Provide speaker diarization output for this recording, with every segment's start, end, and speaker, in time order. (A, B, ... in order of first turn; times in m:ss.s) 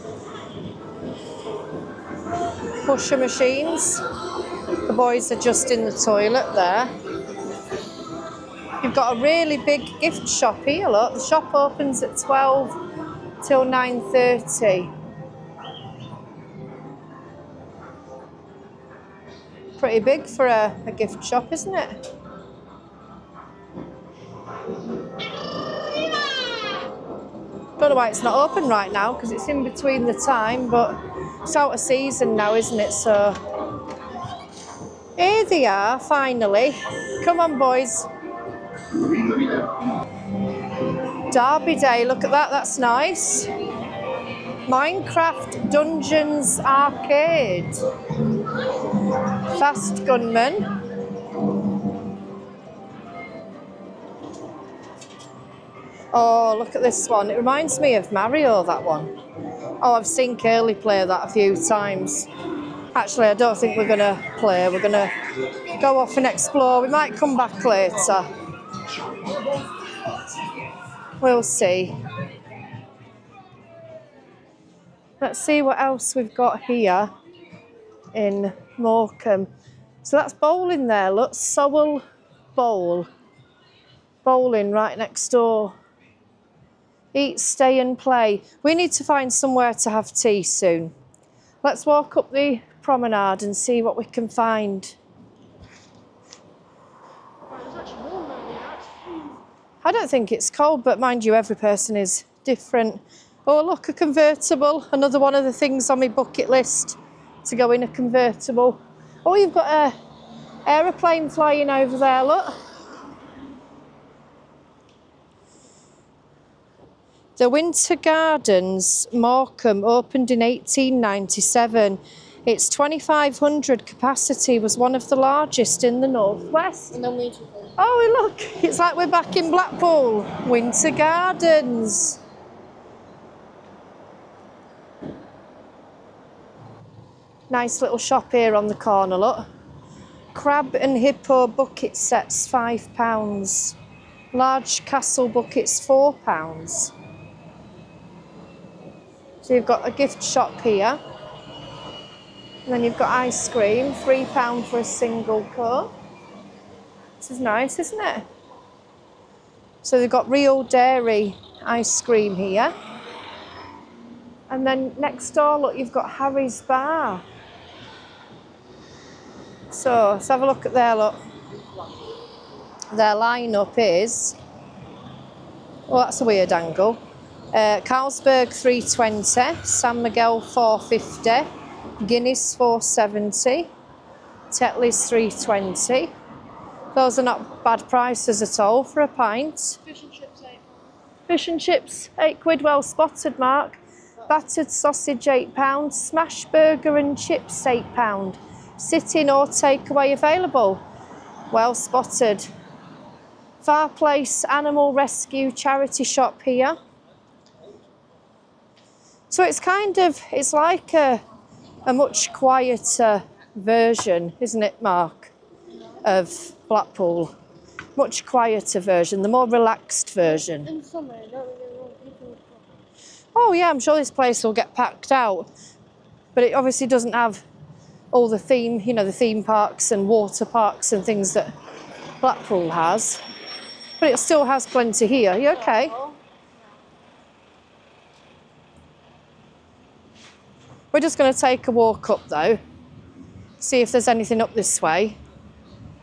0:02.8-0:04.0 A
0:04.8-0:06.9 A
0:08.8-0:12.8 A
0:13.4-0:14.9 A
0:19.8-0:22.0 A
0:27.8-0:33.4 A
0:35.2-0:38.1 A
0:41.2-0:43.5 A
0:44.6-0:47.8 A
0:49.4-0:50.7 A
0:56.1-0:59.1 A
0:59.8-1:02.3 A
1:02.9-1:05.2 A
1:05.8-1:08.3 A
1:11.2-1:12.0 A
1:15.2-1:17.1 A
1:18.1-1:19.5 A
1:20.0-1:22.0 A
1:22.6-1:23.1 A
1:24.2-1:25.8 A
1:27.1-1:30.9 A
1:31.6-1:35.0 A
1:37.5-1:38.9 B
1:39.8-1:49.9 A
1:50.6-1:52.6 A
1:57.4-2:07.0 A
2:06.9-2:07.7 B
2:07.8-2:12.2 A
2:17.5-2:19.5 A
2:20.3-2:23.8 A
2:24.3-2:26.9 A
2:29.4-2:31.0 A
2:32.6-2:35.9 A
2:37.2-2:38.2 A
2:39.8-2:42.7 A
2:44.5-2:47.2 A
2:49.7-2:51.2 A
2:52.9-2:54.4 A
2:55.9-2:57.0 A
2:57.5-3:01.5 A
3:02.0-3:03.7 A
3:04.5-3:06.1 A
3:06.9-3:09.8 A
3:09.8-3:10.6 B
3:11.3-3:20.8 A
3:21.5-3:22.5 A
3:23.6-3:26.8 A
3:29.3-3:31.2 A
3:31.8-3:35.3 A
3:36.0-3:37.3 A
3:37.9-3:40.7 A
3:40.3-3:42.6 B
3:43.3-3:45.5 A
3:46.3-3:47.4 A
3:48.1-3:51.5 A
3:52.2-3:53.2 A
3:54.0-3:55.9 A
3:55.5-3:56.2 B
4:00.9-4:02.6 A
4:03.6-4:05.2 A